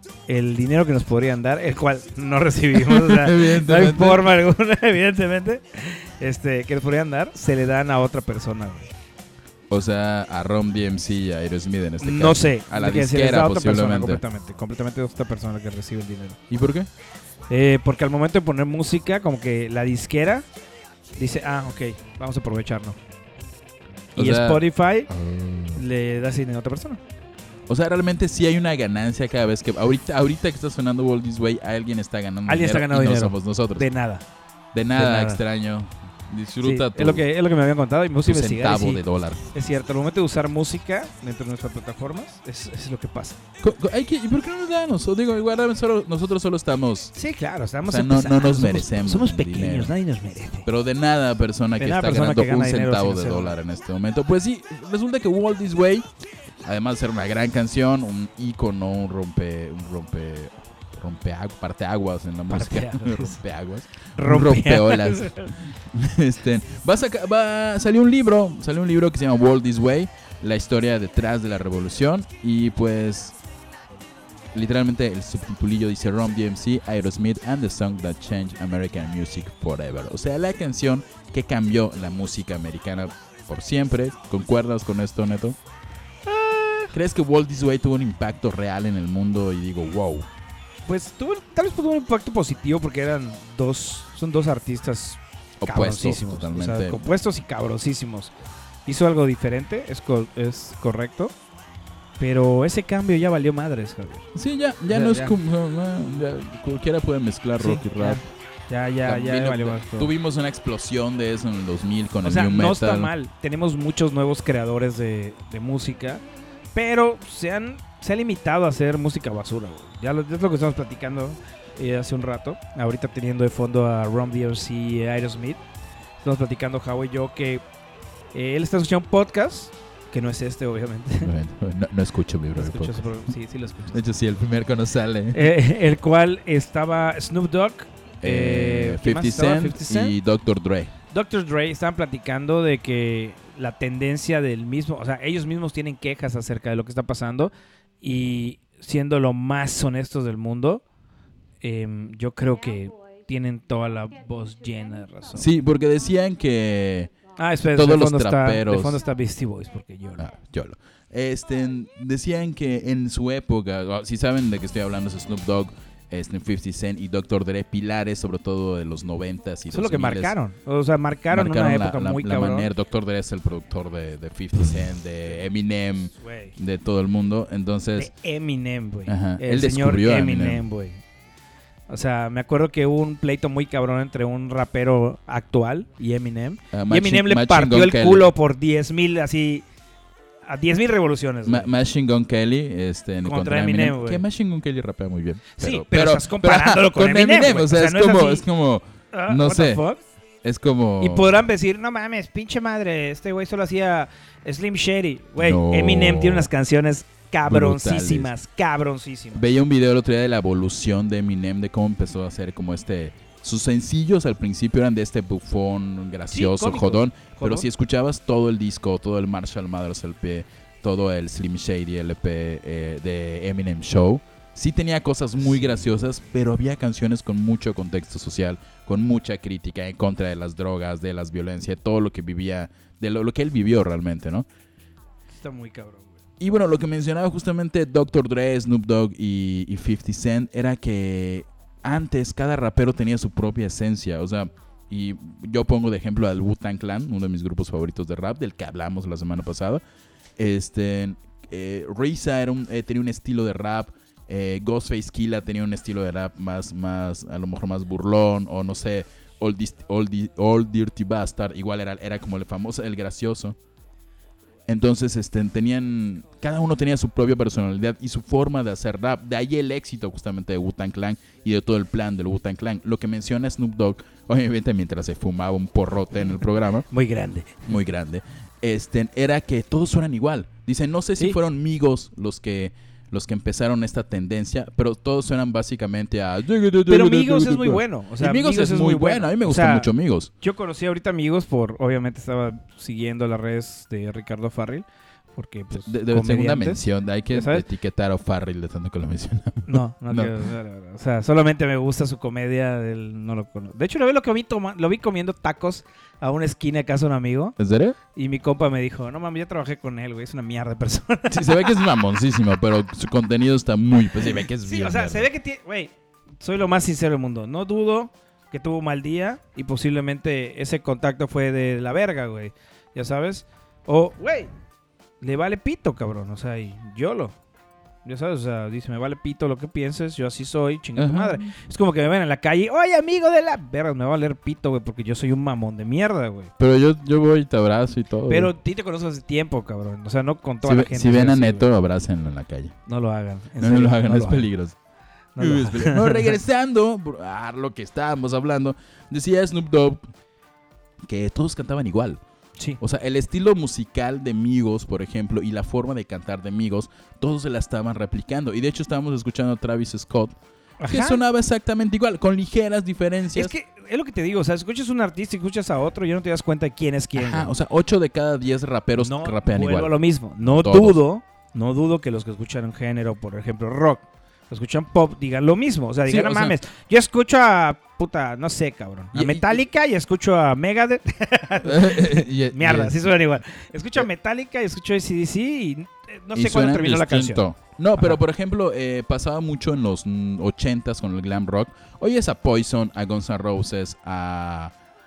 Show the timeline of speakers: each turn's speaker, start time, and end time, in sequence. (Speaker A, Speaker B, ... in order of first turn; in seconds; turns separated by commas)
Speaker A: 0.3-8.9, Speaker B: 2.7-4.3, Speaker B: 9.7-14.2, Speaker A: 12.0-16.4, Speaker B: 16.5-16.9, Speaker A: 17.5-20.4, Speaker A: 21.2-23.0, Speaker B: 24.1-25.8, Speaker A: 24.1-25.1, Speaker A: 25.7-27.0, Speaker B: 27.7-33.9, Speaker A: 32.5-34.2, Speaker B: 34.7-37.2, Speaker A: 34.9-35.4, Speaker A: 36.6-39.0, Speaker B: 38.2-39.4, Speaker A: 39.5-43.4, Speaker B: 43.6-47.1, Speaker A: 47.1-50.7, Speaker B: 47.8-49.9, Speaker B: 50.6-56.0, Speaker A: 51.8-53.5, Speaker B: 56.6-73.3, Speaker A: 62.5-63.4, Speaker A: 64.2-65.5, Speaker B: 74.5-85.6, Speaker A: 86.2-86.9, Speaker B: 86.9-90.3, Speaker A: 90.8-98.3, Speaker B: 95.6-97.0, Speaker A: 98.8-101.3, Speaker A: 102.2-104.3, Speaker B: 104.3-108.2, Speaker A: 104.9-105.3, Speaker A: 107.6-110.1, Speaker B: 109.0-113.1, Speaker A: 112.2-116.2, Speaker A: 116.7-125.6, Speaker A: 126.2-127.6, Speaker A: 128.3-131.3, Speaker B: 131.2-133.0, Speaker A: 132.5-134.0, Speaker B: 133.9-135.5, Speaker A: 135.3-140.2, Speaker B: 138.2-140.9, Speaker A: 141.1-147.5, Speaker A: 148.0-150.8, Speaker A: 151.6-155.5, Speaker B: 155.3-157.1, Speaker A: 157.3-160.3, Speaker B: 157.7-159.0, Speaker B: 160.2-170.3, Speaker A: 169.7-172.7, Speaker B: 171.3-178.1, Speaker A: 176.2-176.5, Speaker A: 178.0-181.0, Speaker B: 179.1-180.6, Speaker A: 181.9-189.7, Speaker B: 186.7-188.3, Speaker A: 190.4-191.7, Speaker B: 191.4-199.8, Speaker A: 193.2-194.2, Speaker A: 195.6-198.4, Speaker A: 199.1-200.0, Speaker B: 200.4-201.4, Speaker A: 201.0-209.4, Speaker B: 205.4-206.5, Speaker B: 207.4-208.3, Speaker B: 209.3-234.4, Speaker A: 216.3-217.7, Speaker A: 235.3-236.2, Speaker B: 236.4-249.8, Speaker B: 250.4-263.6, Speaker B: 264.7-276.9, Speaker A: 276.9-277.7, Speaker B: 277.6-290.3, Speaker A: 286.9-289.9, Speaker A: 290.4-297.6, Speaker B: 295.7-300.4, Speaker A: 299.7-307.6, Speaker B: 307.6-308.0, Speaker A: 308.1-311.9, Speaker B: 311.3-315.3, Speaker A: 314.2-324.5, Speaker A: 325.2-327.3, Speaker A: 328.0-336.5, Speaker B: 330.9-331.5, Speaker B: 336.6-338.5, Speaker A: 338.3-341.6, Speaker B: 340.6-342.8, Speaker A: 342.9-344.5, Speaker B: 343.6-344.8, Speaker A: 345.4-346.4, Speaker B: 345.4-350.1, Speaker B: 351.1-352.2, Speaker B: 352.8-360.4, Speaker A: 360.8-361.2, Speaker B: 360.9-363.5, Speaker A: 363.3-367.5, Speaker B: 367.1-371.0, Speaker A: 369.0-387.4, Speaker B: 376.1-376.5, Speaker B: 379.1-379.6, Speaker B: 381.6-383.0, Speaker B: 386.3-394.7